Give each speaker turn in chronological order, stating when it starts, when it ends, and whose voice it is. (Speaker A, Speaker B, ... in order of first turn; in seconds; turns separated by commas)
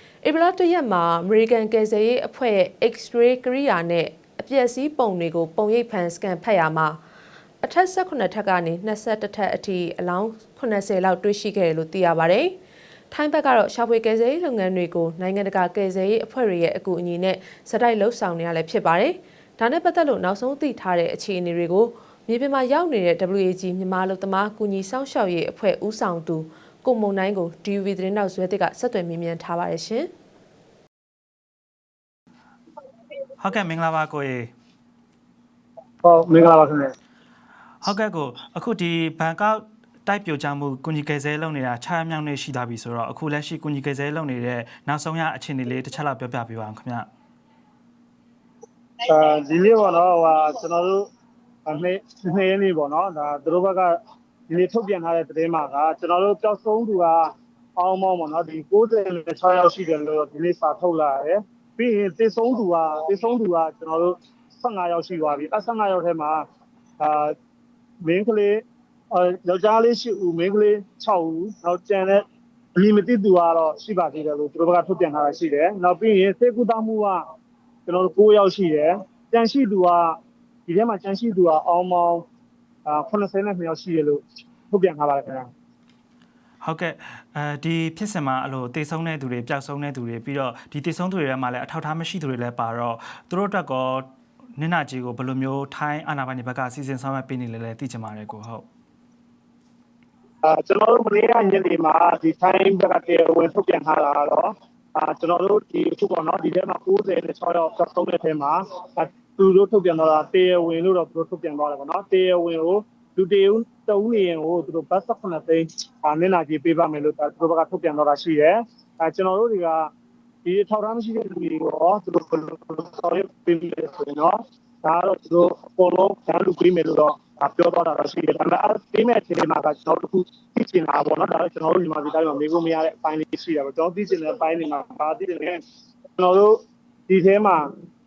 Speaker A: 0.2-7.0, Speaker A: 7.6-12.6, Speaker A: 13.1-30.1, Speaker B: 33.4-34.5, Speaker C: 36.0-36.9, Speaker B: 37.8-47.0, Speaker C: 49.0-51.0, Speaker C: 51.6-54.0, Speaker C: 54.5-66.4, Speaker C: 67.0-67.3, Speaker C: 68.0-72.2, Speaker C: 72.8-77.2, Speaker C: 77.8-82.2, Speaker C: 82.8-85.5, Speaker B: 86.6-98.7, Speaker C: 100.4-119.9, Speaker C: 120.4-135.6, Speaker C: 136.2-137.7